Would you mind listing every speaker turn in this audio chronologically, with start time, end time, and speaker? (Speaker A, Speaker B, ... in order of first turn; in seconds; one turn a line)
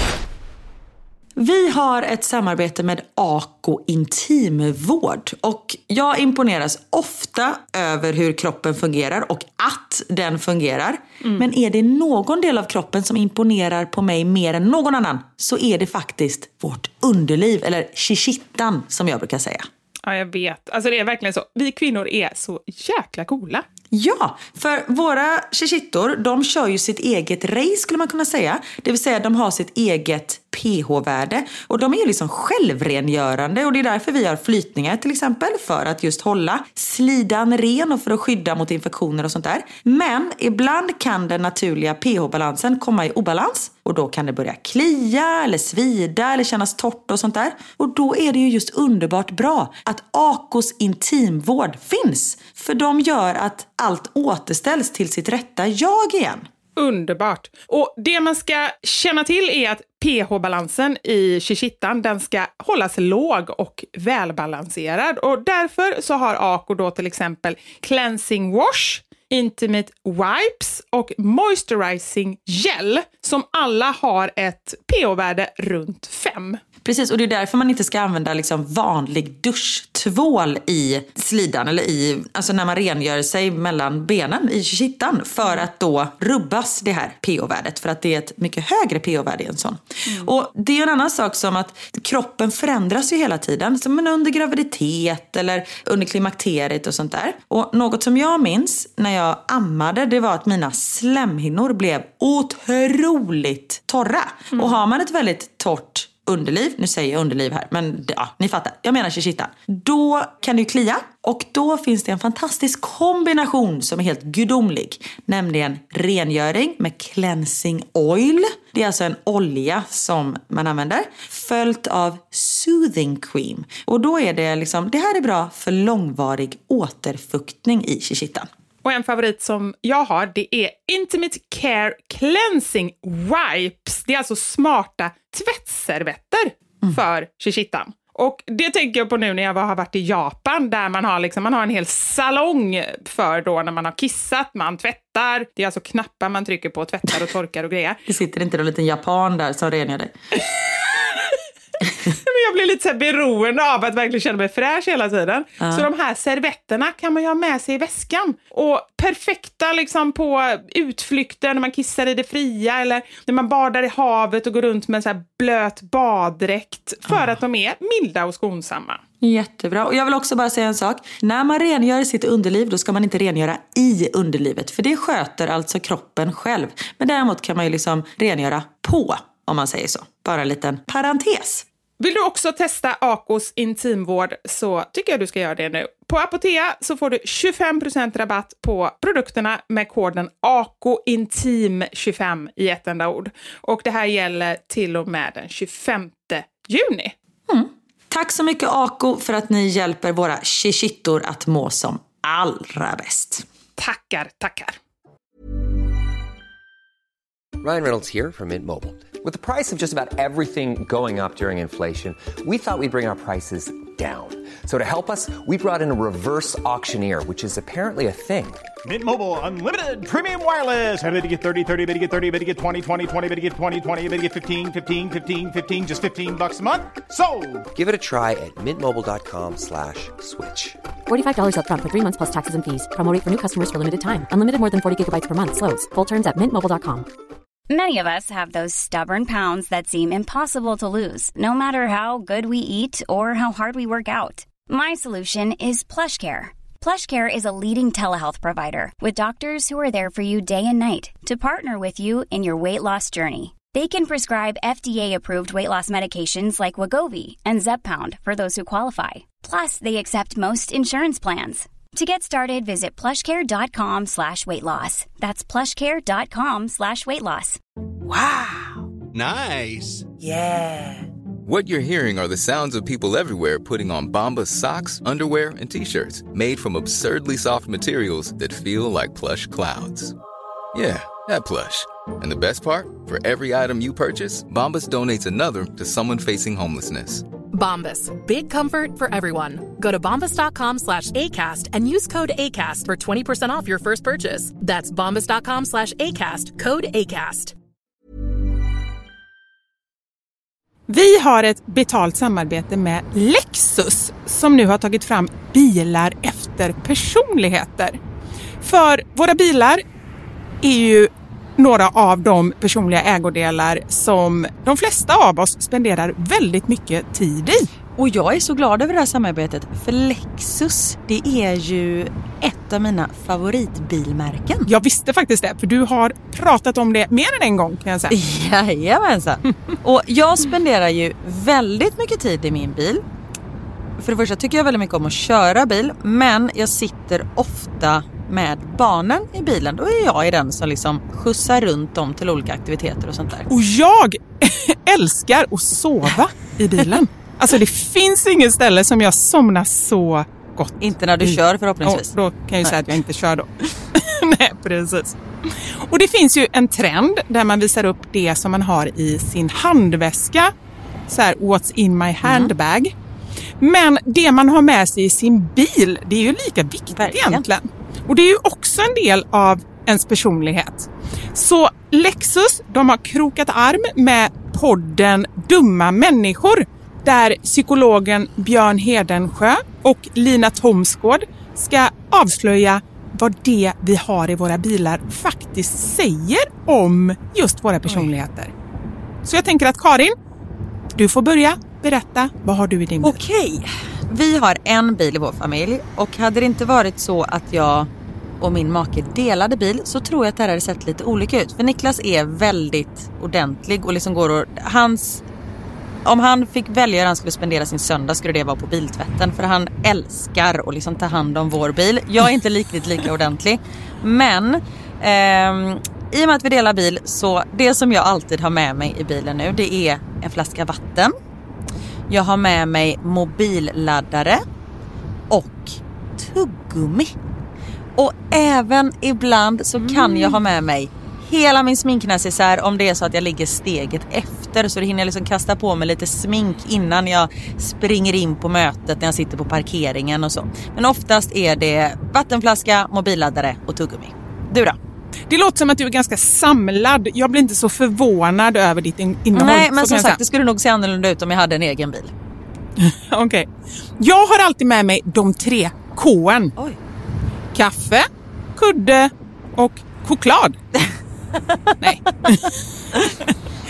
Speaker A: 1.4-19.7
Speaker B: 20.0-23.6
Speaker A: 23.9-56.5
Speaker B: 56.8-76.6
Speaker A: 76.8-128.5
Speaker B: 128.8-148.0
Speaker A: 148.1-150.1
Speaker B: 150.5-151.4
Speaker B: 152.0-169.0
Speaker A: 155.6-155.9
Speaker A: 169.2-181.7
Speaker B: 182.0-197.1
Speaker A: 197.5-203.4
Speaker B: 203.8-204.8
Speaker C: 207.6-218.6
Speaker D: 218.8-227.7
Speaker C: 227.7-230.8
Speaker E: 231.1-237.1
Speaker F: 237.7-267.6
Speaker A: 268.1-268.5
Speaker D: 269.1-270.1
Speaker G: 271.4-280.1
Speaker G: 280.7-287.2
Speaker H: 287.5-297.5
Speaker B: 300.9-308.0
Speaker B: 308.6-309.8
Speaker B: 310.6-317.7
Speaker A: 318.0-324.7
Speaker B: 324.6-328.1
Speaker A: 328.1-333.0
Speaker A: 334.0-343.5
Speaker B: 343.5-360.5
Speaker A: 350.8-352.9
Speaker B: 361.1-362.9
Speaker A: 362.2-362.5
Speaker B: 363.6-388.5
Speaker A: 366.9-367.4
Speaker B: 389.2-390.1
Speaker B: 390.9-393.2
Speaker A: 393.0-405.2
Speaker A: 406.0-421.1
Speaker A: 422.1-424.4
Speaker A: 425.3-427.1
Speaker A: 428.0-444.8
Speaker B: 429.8-430.4
Speaker B: 445.3-450.2
Speaker A: 449.3-452.1
Speaker B: 452.8-453.5
Speaker B: 454.0-456.5
Speaker B: 457.5-460.6
Speaker A: 461.5-461.8
Speaker B: 461.8-463.3